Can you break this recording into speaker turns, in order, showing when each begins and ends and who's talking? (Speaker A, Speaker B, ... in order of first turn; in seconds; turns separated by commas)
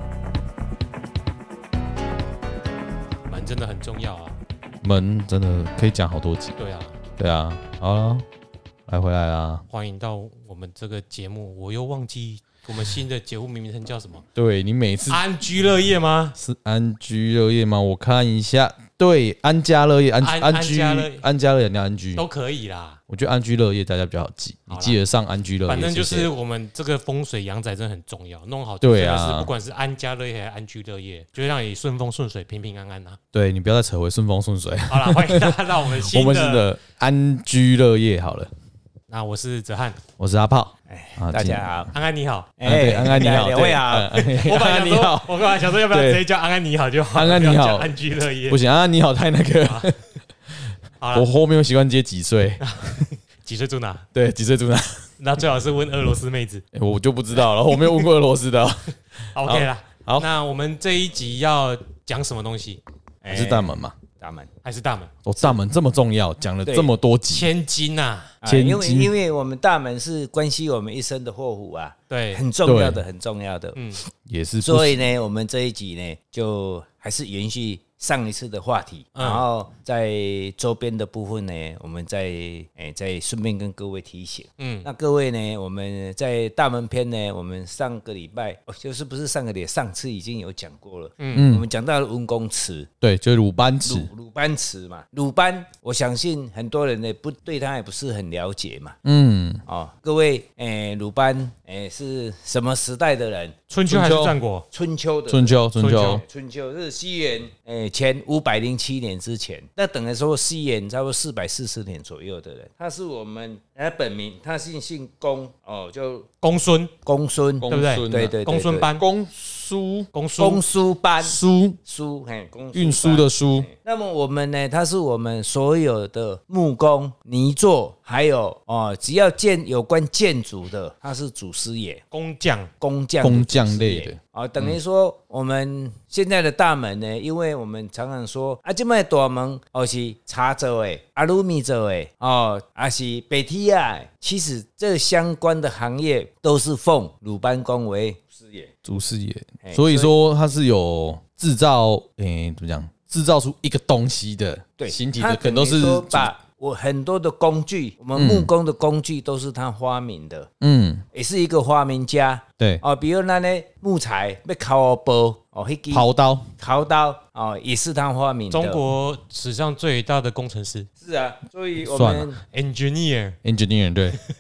Speaker A: 3.3-4.4, Speaker B: 4.8-6.6, Speaker A: 6.6-7.0, Speaker B: 7.2-8.2, Speaker B: 8.9-9.6, Speaker A: 9.7-14.2, Speaker B: 14.3-15.2, Speaker A: 15.1-16.4, Speaker B: 16.4-22.2, Speaker A: 20.2-21.2, Speaker A: 22.2-23.0, Speaker B: 23.1-26.3, Speaker A: 24.7-25.0, Speaker A: 25.7-33.2, Speaker B: 28.8-29.5, Speaker B: 33.3-38.5, Speaker A: 34.9-36.7, Speaker A: 39.1-40.0, Speaker B: 40.2-41.7, Speaker C: 40.9-41.9, Speaker A: 41.9-42.5, Speaker C: 42.6-44.3, Speaker B: 42.7-46.2, Speaker A: 44.3-48.6, Speaker B: 47.1-47.9, Speaker B: 48.5-50.0, Speaker A: 49.6-49.9, Speaker B: 50.5-52.6, Speaker A: 51.0-51.3, Speaker A: 52.6-54.1, Speaker B: 54.1-55.1, Speaker A: 55.2-56.6, Speaker B: 56.7-60.3, Speaker A: 57.7-58.0, Speaker A: 59.3-62.8, Speaker C: 63.2-64.5, Speaker B: 63.3-63.9, Speaker A: 64.6-65.2, Speaker B: 65.2-67.5, Speaker A: 67.3-68.3, Speaker C: 68.4-73.8, Speaker B: 68.5-69.1, Speaker A: 72.1-72.4, Speaker B: 72.6-73.0, Speaker A: 73.8-74.0, Speaker B: 74.3-75.1, Speaker C: 74.6-92.9, Speaker A: 79.2-79.4, Speaker A: 84.6-84.9, Speaker A: 91.2-91.5, Speaker B: 91.3-91.7, Speaker B: 93.0-94.1, Speaker C: 93.8-99.0, Speaker B: 99.0-99.6, Speaker C: 99.7-103.6, Speaker A: 103.7-104.7, Speaker B: 103.9-104.4, Speaker C: 104.7-116.3, Speaker B: 105.3-106.2, Speaker A: 105.8-106.2, Speaker A: 116.4-116.9, Speaker C: 117.0-118.9, Speaker B: 117.6-118.4, Speaker A: 117.7-119.0, Speaker B: 118.9-120.1, Speaker A: 120.1-120.6, Speaker C: 120.4-132.0, Speaker B: 121.2-121.8, Speaker B: 122.7-123.7, Speaker A: 132.1-132.7, Speaker C: 132.8-148.7, Speaker B: 133.2-134.8, Speaker B: 148.8-156.3, Speaker C: 149.6-150.1, Speaker C: 154.8-160.5, Speaker B: 158.2-158.5, Speaker B: 160.6-161.0, Speaker C: 161.1-166.1, Speaker B: 165.9-166.5, Speaker C: 166.6-168.8, Speaker A: 168.5-170.9, Speaker C: 171.0-172.4, Speaker B: 171.9-172.3, Speaker A: 172.5-173.4, Speaker B: 173.4-174.2